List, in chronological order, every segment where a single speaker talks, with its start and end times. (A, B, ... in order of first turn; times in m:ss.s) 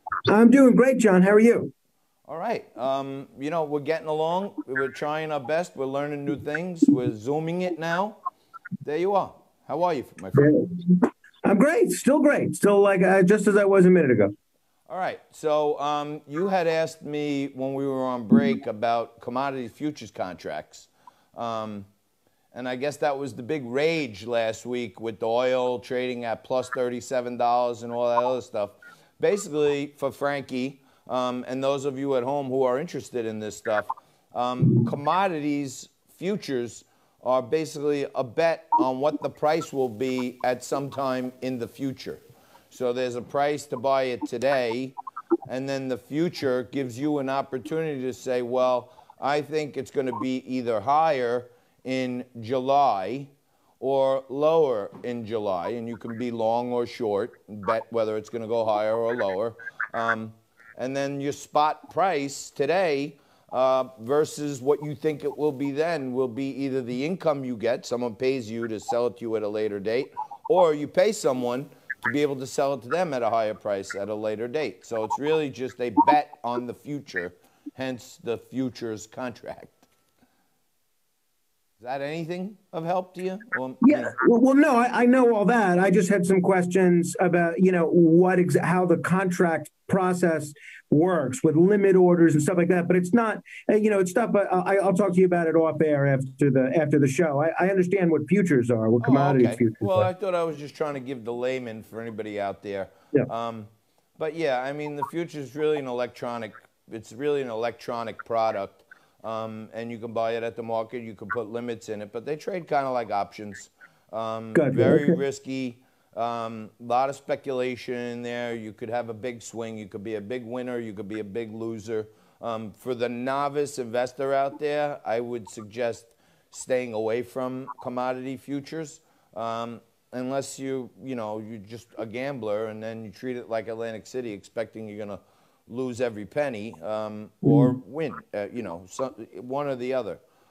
0:00.3-0:01.7 A
0:02.2-0:08.2 B
0:08.8-0:10.5 B
0:10.3-0:14.3 A
0:14.9-0:21.9 B
0:22.5-0:44.9 B
0:45.5-1:19.9 B
1:21.8-1:24.1 B
1:23.8-1:40.1 A
1:39.0-2:20.2 B
1:54.5-1:55.2 A